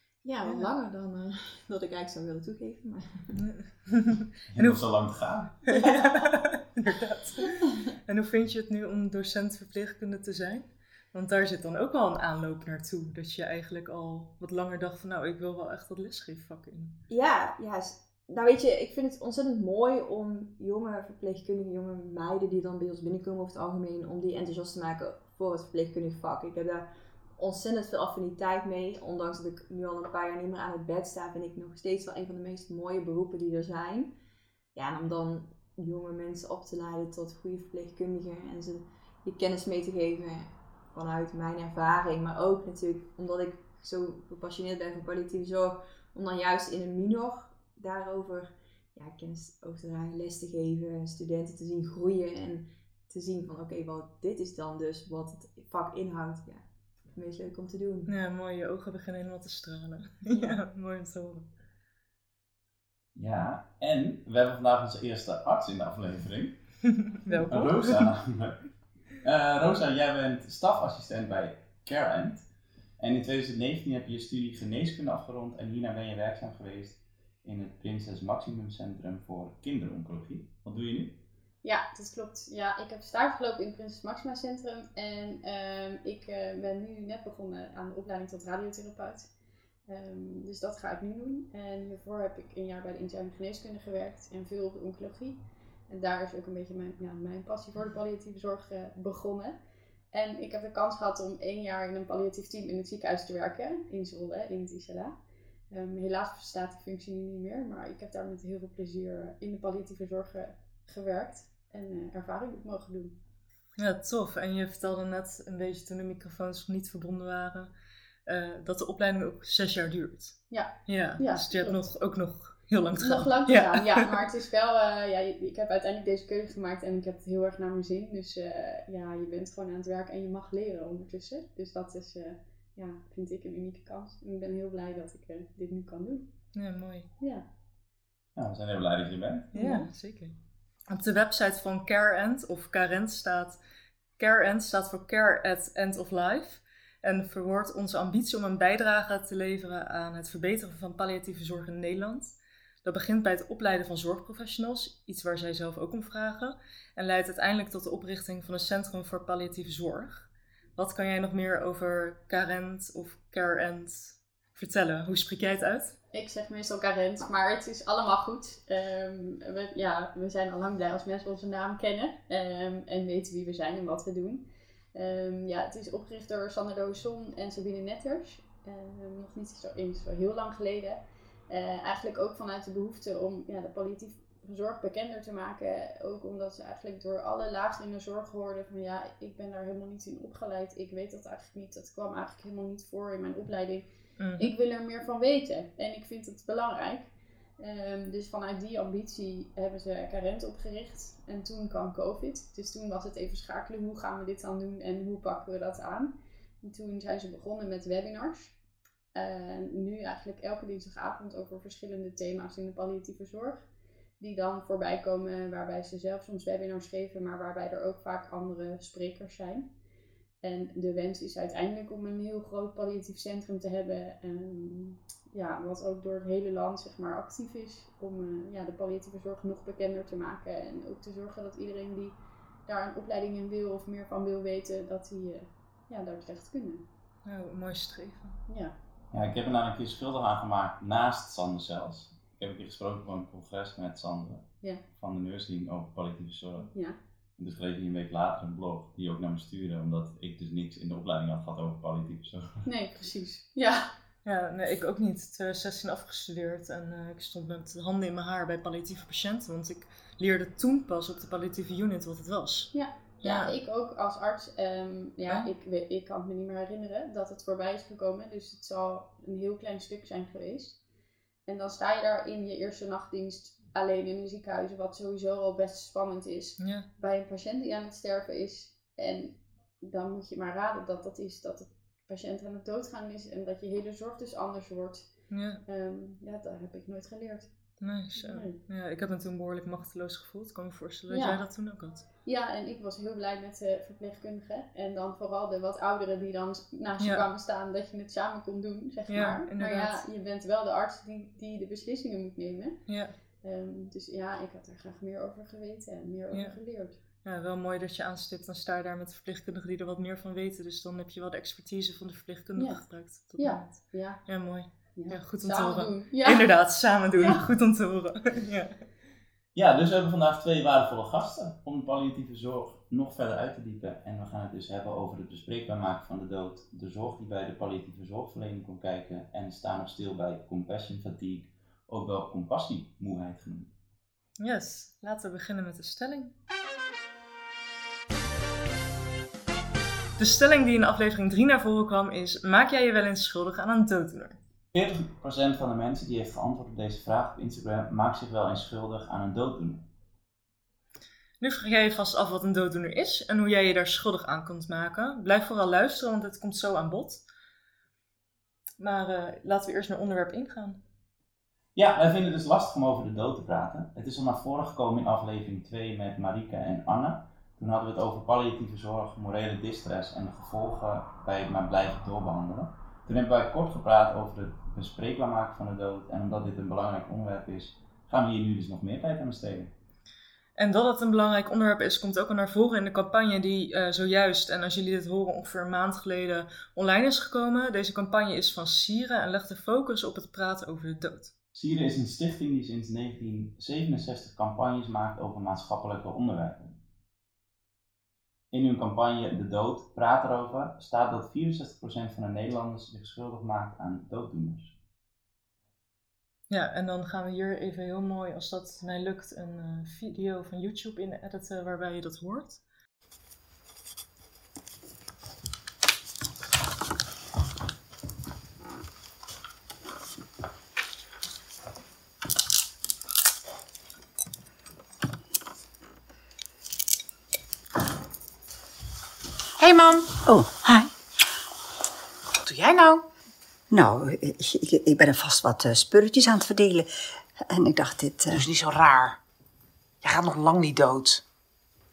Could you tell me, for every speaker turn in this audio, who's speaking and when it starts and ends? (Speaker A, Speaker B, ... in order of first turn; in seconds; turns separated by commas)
Speaker A: 0.2-3.4, Speaker B: 3.4-4.8, Speaker C: 4.5-5.6, Speaker B: 5.7-17.0, Speaker A: 5.7-6.1, Speaker A: 17.1-34.1, Speaker A: 34.8-58.1, Speaker B: 58.1-61.5, Speaker A: 60.3-60.6, Speaker C: 63.1-66.6, Speaker B: 67.0-68.1, Speaker C: 67.5-72.5, Speaker C: 73.0-81.2, Speaker D: 81.6-89.3, Speaker D: 89.9-99.6, Speaker D: 100.1-105.2, Speaker D: 105.7-113.2, Speaker B: 113.8-117.7, Speaker B: 118.3-124.2, Speaker D: 120.5-121.8, Speaker D: 123.0-136.3, Speaker B: 136.5-137.1, Speaker D: 137.2-137.4, Speaker C: 138.4-139.6, Speaker B: 139.5-140.4, Speaker D: 139.6-139.9, Speaker B: 140.9-143.6, Speaker B: 144.2-166.0, Speaker D: 166.1-193.8, Speaker B: 194.2-194.5, Speaker D: 194.4-208.6, Speaker D: 209.1-213.7, Speaker D: 214.2-219.7, Speaker D: 220.4-236.8, Speaker B: 237.2-238.4, Speaker D: 238.5-238.7, Speaker C: 239.1-246.7, Speaker D: 246.7-247.0, Speaker C: 247.4-252.7, Speaker D: 252.7-253.9, Speaker B: 254.2-263.5, Speaker D: 262.7-270.8, Speaker D: 271.5-285.1, Speaker B: 276.6-276.9, Speaker B: 285.3-285.6, Speaker D: 285.7-287.5, Speaker B: 287.8-292.1, Speaker D: 288.2-288.6, Speaker D: 291.1-291.4, Speaker D: 292.2-302.8, Speaker B: 297.0-297.2, Speaker B: 299.1-300.0, Speaker B: 302.9-303.1, Speaker D: 303.4-307.0, Speaker B: 306.3-306.6, Speaker B: 307.2-318.8, Speaker D: 312.6-312.8, Speaker D: 313.4-314.2, Speaker D: 314.9-316.5, Speaker C: 319.6-333.7, Speaker B: 334.4-336.3, Speaker B: 340.2-344.4, Speaker C: 344.7-349.8, Speaker B: 351.4-357.2, Speaker B: 358.8-360.8, Speaker C: 361.8-379.7, Speaker B: 380.6-391.3, Speaker C: 391.5-396.8, Speaker C: 398.5-404.8, Speaker B: 406.5-412.6, Speaker E: 429.6-430.2, Speaker F: 430.2-430.9, Speaker E: 432.4-433.0, Speaker F: 433.7-438.4, Speaker E: 438.3-439.2, Speaker E: 440.0-441.2